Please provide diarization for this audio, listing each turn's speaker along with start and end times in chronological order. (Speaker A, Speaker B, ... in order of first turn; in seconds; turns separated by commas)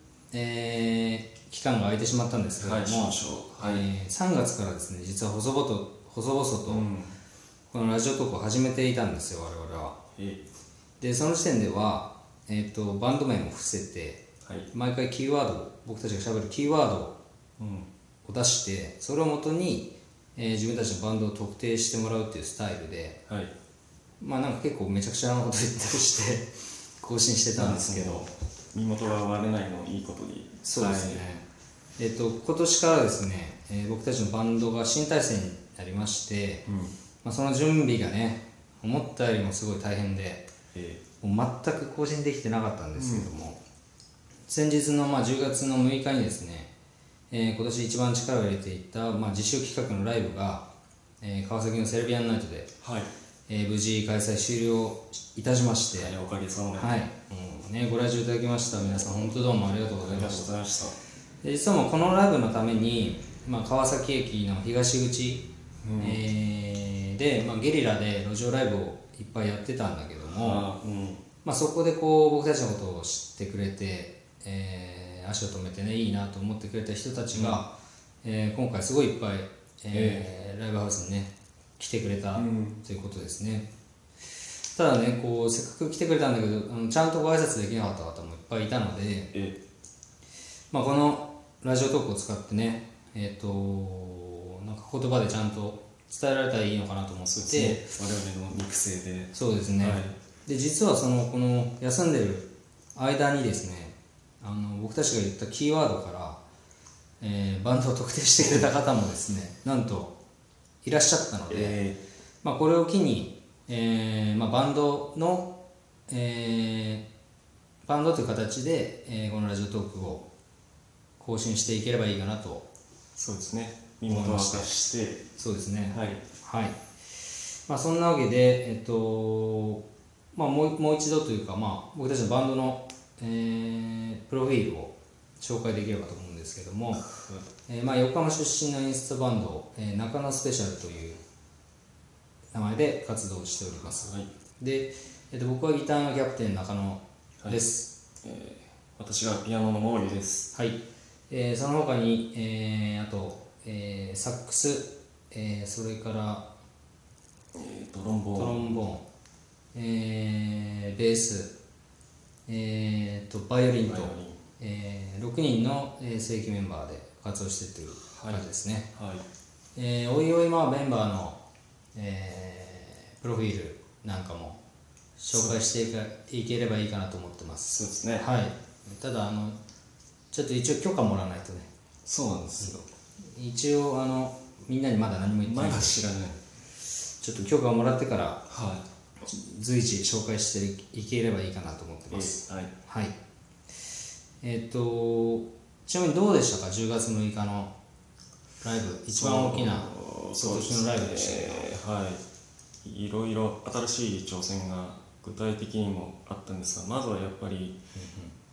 Speaker A: 0.3-6.8, Speaker B: 2.6-3.9, Speaker B: 6.7-7.1, Speaker A: 7.7-10.0, Speaker B: 10.2-10.4, Speaker A: 11.0-17.1, Speaker B: 14.4-14.7, Speaker B: 17.6-17.9, Speaker A: 18.2-23.2, Speaker B: 23.3-23.5, Speaker A: 24.2-28.3, Speaker B: 27.6-31.2, Speaker A: 30.6-31.4, Speaker A: 32.0-36.6, Speaker B: 36.7-36.9, Speaker A: 37.2-40.5, Speaker B: 40.7-41.0, Speaker A: 41.2-43.6, Speaker B: 43.0-43.3, Speaker A: 44.5-46.7, Speaker A: 47.3-50.6, Speaker A: 51.2-52.7, Speaker B: 52.8-53.1, Speaker A: 53.5-56.1, Speaker B: 55.9-57.0, Speaker A: 56.8-60.5, Speaker B: 60.0-61.0, Speaker A: 61.4-65.4, Speaker B: 65.8-66.2, Speaker A: 66.0-70.7, Speaker B: 70.3-71.2, Speaker A: 71.4-77.7, Speaker B: 77.3-77.6, Speaker A: 78.2-83.7, Speaker B: 79.9-80.3, Speaker B: 82.3-82.8, Speaker A: 84.7-89.3, Speaker B: 89.3-89.6, Speaker A: 90.7-97.9, Speaker B: 97.3-100.2, Speaker A: 99.3-106.4, Speaker A: 107.2-110.1, Speaker B: 108.4-108.7, Speaker A: 110.8-111.8, Speaker B: 111.5-112.0, Speaker A: 112.4-115.5, Speaker A: 116.1-117.0, Speaker A: 117.8-120.2, Speaker A: 121.2-122.7, Speaker B: 123.2-125.2, Speaker A: 124.1-124.7, Speaker A: 125.4-126.8, Speaker B: 125.9-126.2, Speaker A: 127.7-129.8, Speaker A: 130.3-137.1, Speaker B: 137.2-137.4, Speaker A: 137.7-141.2, Speaker A: 142.5-147.9, Speaker B: 143.9-144.3, Speaker B: 148.2-150.5, Speaker A: 150.5-156.4, Speaker B: 157.5-158.7, Speaker A: 158.3-159.0, Speaker A: 159.7-161.5, Speaker A: 162.5-168.9, Speaker B: 163.8-164.4, Speaker B: 168.1-169.2, Speaker A: 169.8-171.4, Speaker A: 171.9-174.6, Speaker A: 175.2-179.6, Speaker B: 175.3-175.6, Speaker B: 177.7-178.2, Speaker A: 180.3-181.7, Speaker B: 182.0-182.8, Speaker A: 182.6-186.1, Speaker B: 185.4-186.4, Speaker A: 187.2-188.5, Speaker B: 188.5-188.8, Speaker A: 189.2-193.1, Speaker B: 192.1-192.7, Speaker A: 194.4-197.7, Speaker A: 198.6-201.7, Speaker B: 199.1-202.2, Speaker B: 202.8-207.8, Speaker A: 207.9-208.3